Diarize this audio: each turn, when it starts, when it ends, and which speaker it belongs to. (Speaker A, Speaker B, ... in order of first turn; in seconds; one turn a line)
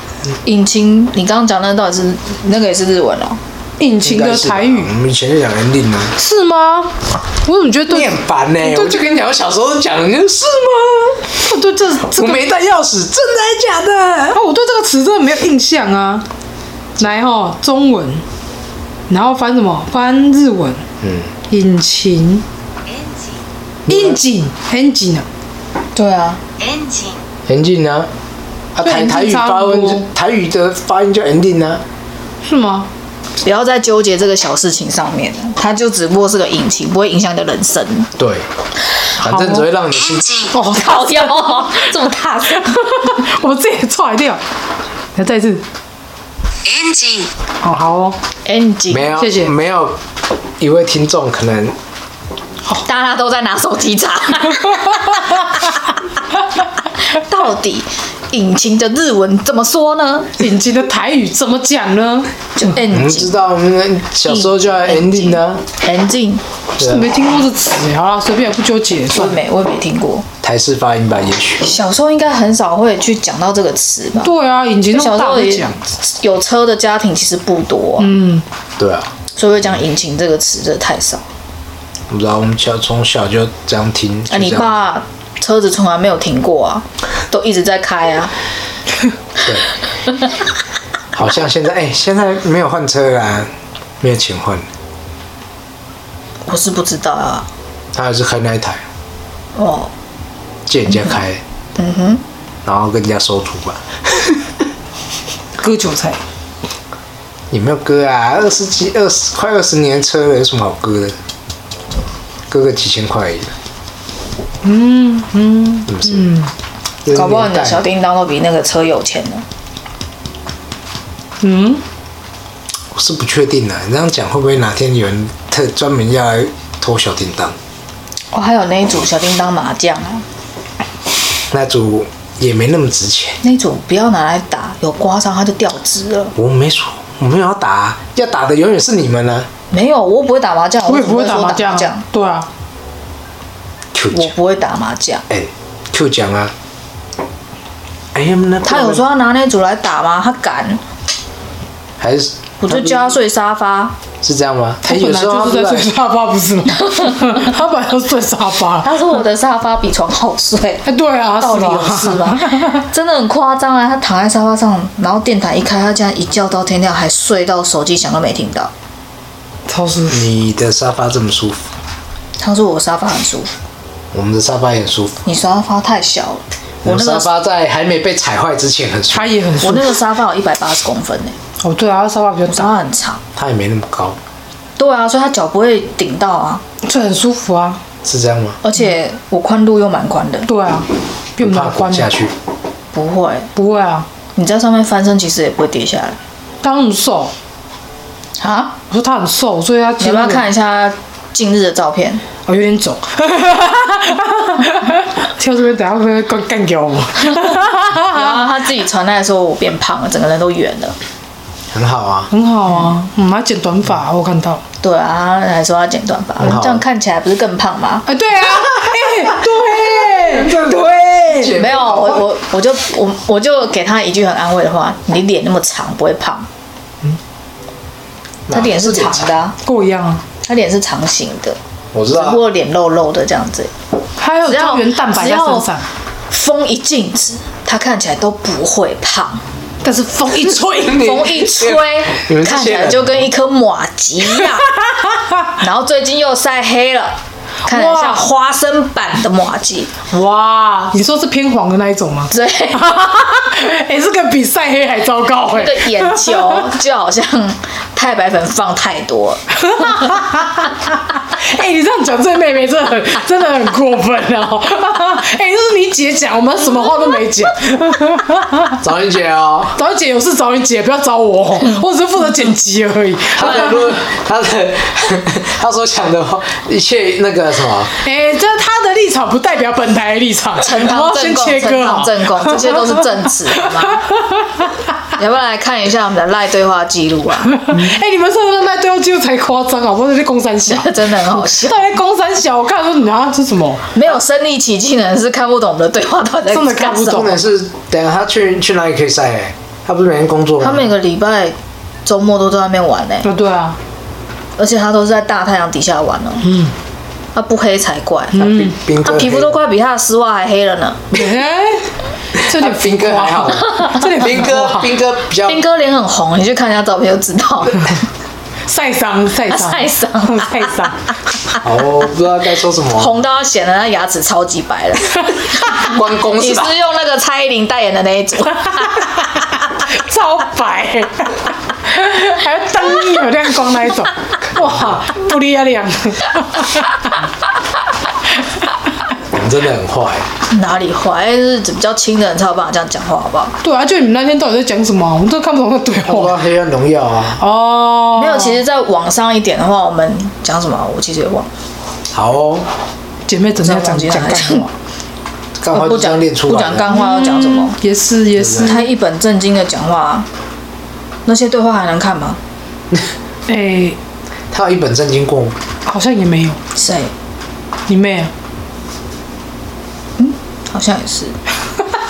Speaker A: 0.5-3.4
Speaker B: 3.8-4.9
Speaker C: 4.0-6.2
Speaker B: 6.2-9.1
Speaker C: 7.9-11.3
Speaker B: 11.4-12.5
Speaker C: 12.2-14.4
Speaker B: 14.3-16.2
Speaker B: 17.0-18.2
Speaker B: 19.1-20.8
Speaker C: 21.0-21.3
Speaker B: 21.5-22.4
Speaker C: 23.9-24.2
Speaker B: 23.9-25.3
Speaker A: 25.9-26.4
Speaker C: 27.5-28.1
Speaker C: 28.8-31.8
Speaker B: 28.8-30.1
Speaker B: 32.5-32.9
Speaker A: 33.4-38.1
Speaker C: 38.2-38.5
Speaker C: 39.2-40.5
Speaker B: 39.2-39.7
Speaker B: 40.5-41.7
Speaker A: 40.6-42.9
Speaker B: 42.5-44.4
Speaker B: 45.2-45.6
Speaker B: 47.6-48.2
Speaker A: 48.5-49.1
Speaker C: 48.9-50.0
Speaker B: 49.2-49.5
Speaker C: 50.6-51.8
Speaker A: 52.8-55.2
Speaker A: 57.1-60.3
Speaker B: 60.4-62.3
Speaker A: 62.6-63.4
Speaker C: 62.9-65.6
Speaker A: 64.3-66.4
Speaker C: 66.8-67.1
Speaker B: 66.8-69.4
Speaker A: 69.1-70.3
Speaker C: 70.4-71.7
Speaker A: 71.6-74.3
Speaker B: 74.2-75.8
Speaker A: 74.9-78.1
Speaker B: 78.0-78.4
Speaker C: 78.8-79.1
Speaker A: 79.4-81.2
Speaker C: 82.1-84.8
Speaker A: 84.3-88.3
Speaker C: 91.1-93.5
Speaker C: 94.0-94.7
Speaker A: 96.5-97.5
Speaker C: 98.0-98.8
Speaker A: 99.6-99.9
Speaker C: 100.7-101.4
Speaker A: 101.8-102.2
Speaker C: 102.7-104.5
Speaker B: 105.6-106.2
Speaker C: 107.5-111.2
Speaker C: 112.5-113.5
Speaker B: 114.6-116.5
Speaker C: 115.9-116.3
Speaker C: 117.0-117.8
Speaker A: 117.1-119.5
Speaker B: 121.4-121.8
Speaker C: 122.9-127.6
Speaker A: 128.3-130.2
Speaker C: 131.5-133.4
Speaker A: 133.4-136.3
Speaker C: 136.3-139.5
Speaker A: 139.7-142.0
Speaker B: 140.9-142.5
Speaker C: 143.9-144.3
Speaker A: 144.1-145.2
Speaker C: 145.3-146.5
Speaker C: 148.1-149.1
Speaker A: 148.6-150.8
Speaker C: 152.0-153.1
Speaker A: 152.6-153.9
Speaker C: 154.2-155.9
Speaker B: 154.8-158.9
Speaker A: 158.8-160.8
Speaker B: 160.8-162.8
Speaker A: 161.4-168.7
Speaker B: 169.7-170.2
Speaker C: 170.1-171.6
Speaker A: 172.4-173.5
Speaker C: 174.1-175.2
Speaker A: 175.2-177.3
Speaker C: 176.8-179.3
Speaker B: 179.1-180.0
Speaker A: 179.6-181.4
Speaker B: 181.6-182.7
Speaker A: 182.5-183.2
Speaker C: 183.4-184.2
Speaker A: 184.8-186.6
Speaker B: 186.8-187.8
Speaker C: 188.0-188.6
Speaker A: 188.6-190.5
Speaker B: 190.5-192.1
Speaker C: 191.4-192.3
Speaker A: 192.9-193.5
Speaker B: 193.6-194.1
Speaker A: 194.3-196.2
Speaker B: 196.6-197.3
Speaker A: 198.4-198.8
Speaker B: 198.9-200.5
Speaker A: 200.0-202.2
Speaker B: 202.5-208.5
Speaker A: 208.0-211.0
Speaker C: 211.7-212.3
Speaker B: 212.3-214.6
Speaker A: 214.8-218.1
Speaker C: 216.4-216.8
Speaker B: 218.1-221.5
Speaker C: 218.8-222.3
Speaker A: 221.5-226.5
Speaker C: 228.5-229.3
Speaker A: 228.5-229.6
Speaker B: 229.6-230.2
Speaker A: 230.4-231.6
Speaker C: 231.9-232.4
Speaker A: 232.1-233.7
Speaker B: 234.2-235.9
Speaker A: 234.4-235.7
Speaker A: 236.3-239.4
Speaker B: 239.8-241.2
Speaker C: 240.8-243.2
Speaker A: 240.9-244.7
Speaker A: 245.6-249.9
Speaker B: 247.7-248.3
Speaker B: 250.1-256.7
Speaker A: 252.3-252.9
Speaker A: 255.5-259.4
Speaker B: 259.6-268.8
Speaker C: 268.8-269.8
Speaker B: 269.8-274.0
Speaker C: 273.3-277.9
Speaker B: 278.0-284.7
Speaker A: 280.6-284.0
Speaker A: 285.2-287.6
Speaker B: 287.6-294.0
Speaker A: 290.7-291.9
Speaker A: 293.9-297.3
Speaker B: 296.5-297.4
Speaker C: 297.1-300.9
Speaker A: 300.6-303.3
Speaker B: 303.2-303.8
Speaker A: 304.6-306.5
Speaker B: 306.4-306.7
Speaker A: 307.4-311.0
Speaker B: 308.3-308.7
Speaker C: 308.4-309.6
Speaker B: 311.1-315.0
Speaker C: 312.4-315.6
Speaker A: 315.4-317.9
Speaker B: 318.7-321.0
Speaker A: 319.5-320.7
Speaker C: 321.6-323.2
Speaker A: 323.0-329.1
Speaker C: 325.7-326.7
Speaker B: 329.7-337.2
Speaker C: 339.3-340.3
Speaker A: 340.5-343.6
Speaker B: 343.6-346.4
Speaker C: 346.1-347.4
Speaker B: 347.4-348.6
Speaker A: 348.1-351.5
Speaker C: 352.1-352.7
Speaker B: 353.3-354.7
Speaker A: 353.6-354.7
Speaker C: 355.6-357.0
Speaker A: 355.7-357.8
Speaker B: 356.9-358.9
Speaker C: 358.4-358.8
Speaker A: 358.6-360.3
Speaker A: 361.3-362.4
Speaker B: 363.5-364.0
Speaker C: 364.5-365.6
Speaker B: 365.9-366.6
Speaker A: 366.8-367.1
Speaker B: 367.9-368.3
Speaker A: 370.2-371.4